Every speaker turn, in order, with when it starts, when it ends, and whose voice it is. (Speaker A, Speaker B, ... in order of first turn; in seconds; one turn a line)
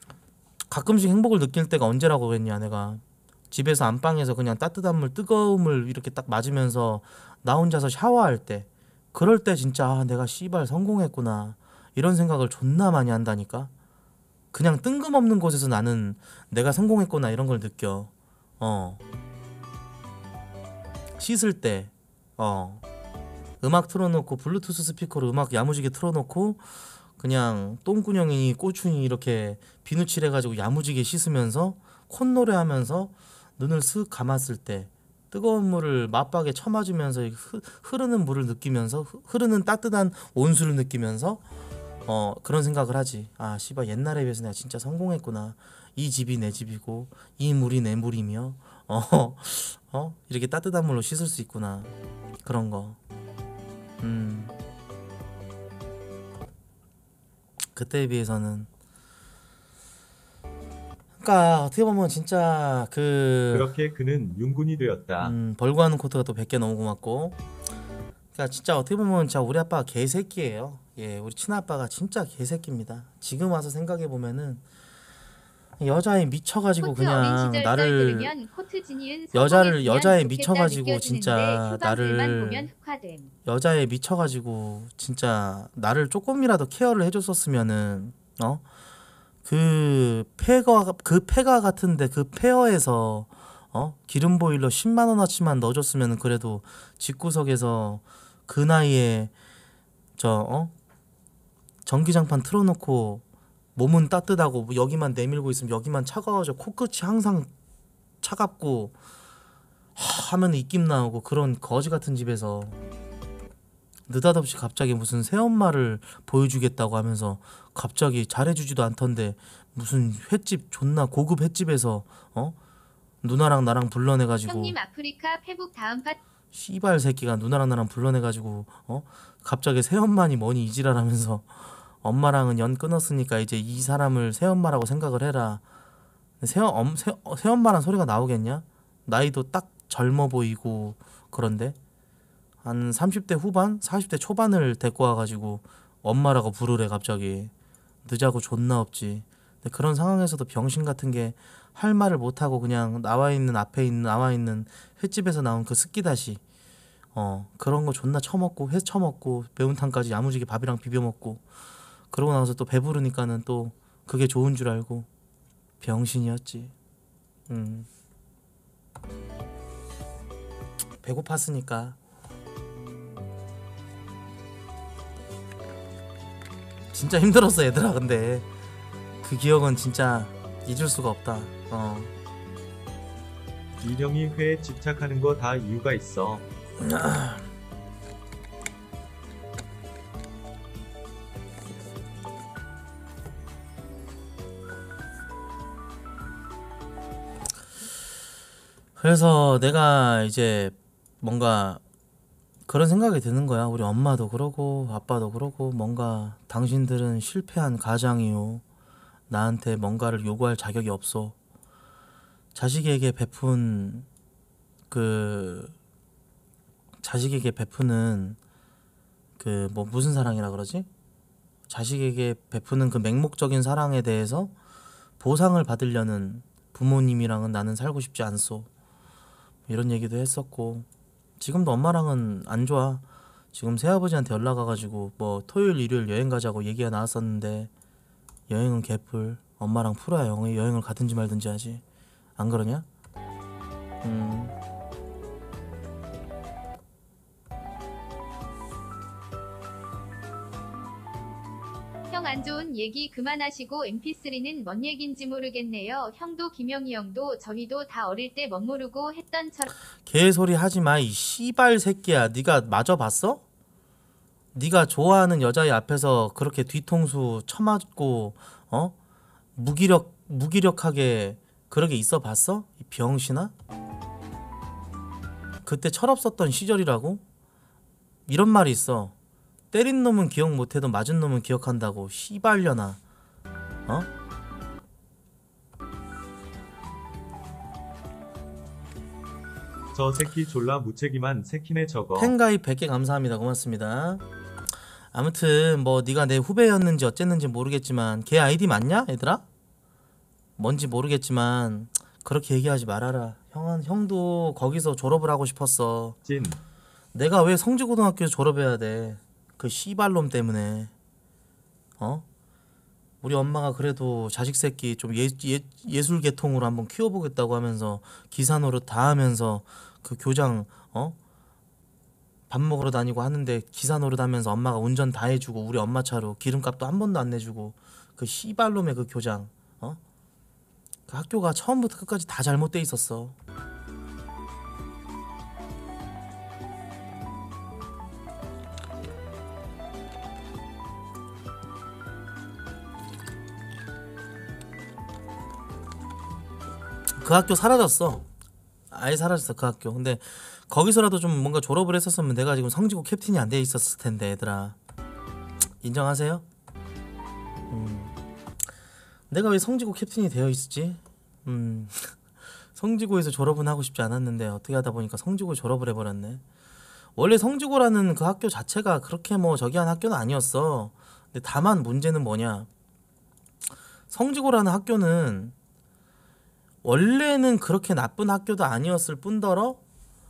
Speaker A: 0.7-13.7
Speaker A: 14.5-19.0
Speaker A: 21.2-22.8
Speaker A: 23.6-41.4
Speaker A: 42.1-51.9
Speaker A: 52.4-53.0
Speaker A: 54.0-54.5
Speaker A: 57.8-58.7
Speaker A: 61.2-63.7
Speaker B: 63.5-65.3
Speaker A: 65.2-67.4
Speaker A: 68.3-74.6
Speaker A: 75.8-78.3
Speaker C: 76.8-83.3
Speaker A: 79.3-82.7
Speaker A: 83.5-88.6
Speaker A: 89.5-99.3
Speaker A: 100.2-100.7
Speaker A: 101.9-103.2
Speaker A: 103.8-107.5
Speaker A: 108.2-109.0
Speaker A: 110.0-112.8
Speaker A: 114.1-122.6
Speaker A: 123.2-124.8
Speaker C: 124.5-126.2
Speaker A: 126.5-135.6
Speaker A: 136.4-141.8
Speaker A: 142.6-147.5
Speaker A: 148.1-156.4
Speaker A: 157.1-161.4
Speaker A: 162.1-165.1
Speaker A: 165.8-166.7
Speaker A: 167.5-167.9
Speaker A: 171.0-172.0
Speaker A: 176.9-178.5
Speaker A: 179.2-182.1
Speaker B: 183.8-186.4
Speaker A: 186.8-187.4
Speaker A: 199.0-201.8
Speaker A: 202.7-208.6
Speaker A: 209.3-211.3
Speaker A: 212.6-214.1
Speaker A: 214.9-215.7
Speaker A: 217.0-218.4
Speaker A: 219.4-220.9
Speaker A: 221.7-224.5
Speaker A: 225.2-228.7
Speaker A: 229.7-230.9
Speaker A: 231.4-237.7
Speaker A: 238.5-241.8
Speaker A: 242.4-242.9
Speaker A: 244.0-244.6
Speaker C: 252.1-259.8
Speaker A: 260.1-263.4
Speaker A: 264.5-268.9
Speaker A: 269.6-273.5
Speaker A: 275.6-277.2
Speaker A: 278.3-279.1
Speaker A: 279.7-283.0
Speaker B: 289.9-292.3
Speaker A: 292.2-294.2
Speaker A: 295.1-299.4
Speaker A: 300.6-306.2
Speaker B: 306.3-306.6
Speaker A: 307.1-310.9
Speaker A: 312.0-312.3
Speaker A: 313.2-321.2
Speaker A: 322.5-330.0
Speaker A: 331.1-333.4
Speaker A: 347.2-348.3
Speaker A: 348.9-354.8
Speaker A: 355.8-356.4
Speaker A: 357.7-358.1
Speaker A: 359.3-362.2
Speaker A: 362.8-366.4
Speaker A: 367.2-372.7
Speaker A: 374.1-375.5
Speaker A: 376.8-379.8